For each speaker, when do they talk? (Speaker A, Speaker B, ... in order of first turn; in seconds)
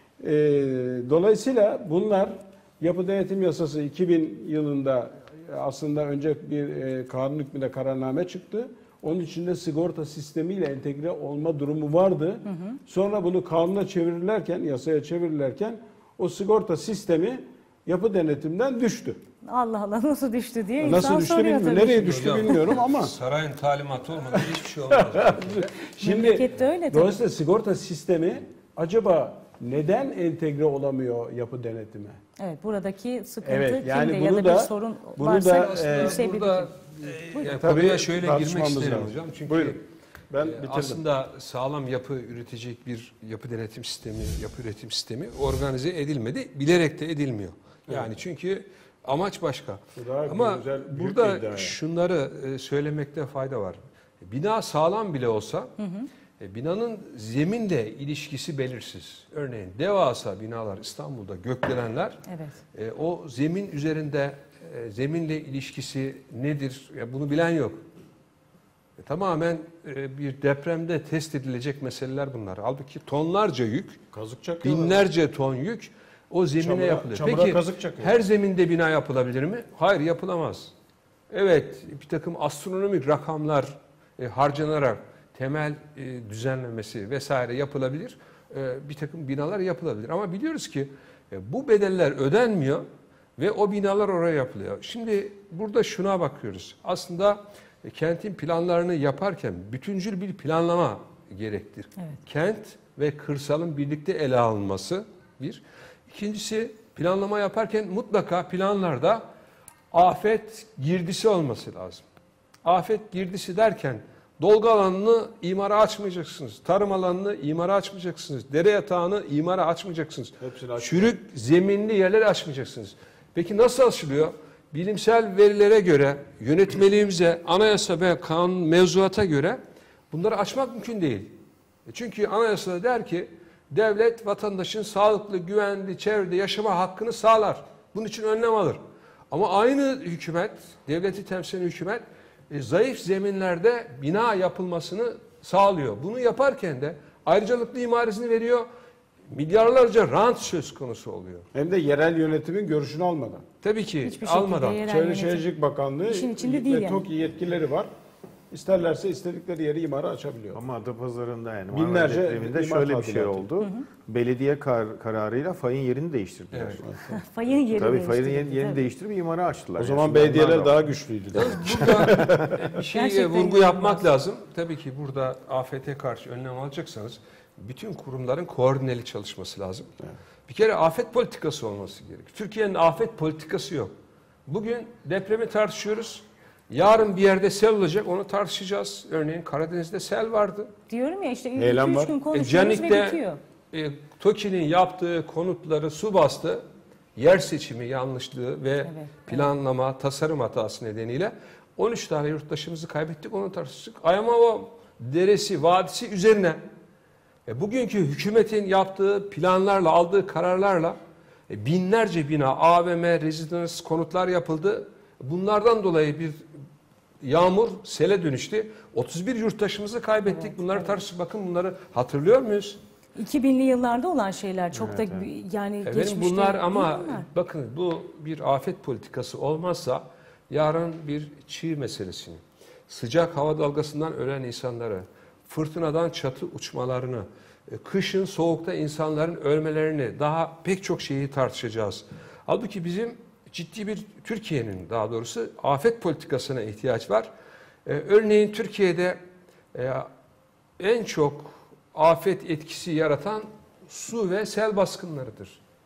Speaker A: 0.2-19.2, 20.8-23.1, 24.3-32.2, 33.4-36.3, 37.4-41.0, 50.0-51.8, 74.1-75.1, 76.6-78.2, 120.4-121.2, 151.5-153.4, 154.9-157.9, 158.5-160.6, 161.7-163.5, 169.8-172.6, 191.6-192.2
Speaker B: 12.5-12.8, 19.4-22.5, 26.0-27.1, 32.4-36.7, 55.8-56.1, 62.3-62.6, 154.0-155.5, 156.1-157.1, 167.1-168.9, 172.8-174.0, 190.9-193.4, 198.8-199.4, 220.3-221.0, 223.2-227.3
Speaker C: 21.9-25.7, 35.5-39.8, 40.4-55.7, 56.4-62.2, 62.7-67.8, 69.0-74.0, 74.6-80.7, 81.3-92.9, 93.4-109.2, 109.9-112.0, 112.6-129.6, 130.1-148.7, 149.3-151.5, 153.6-154.8, 166.5-166.8, 171.3-179.9, 180.5-183.9, 184.5-190.7, 192.3-193.2, 193.7-196.6, 197.2-206.6, 207.5-211.0, 211.5-216.4, 217.2-222.8, 225.8-247.3, 247.9-249.2, 249.7-250.1, 250.8-255.6
Speaker D: 160.5-166.9, 167.7-170.9, 224.7-225.3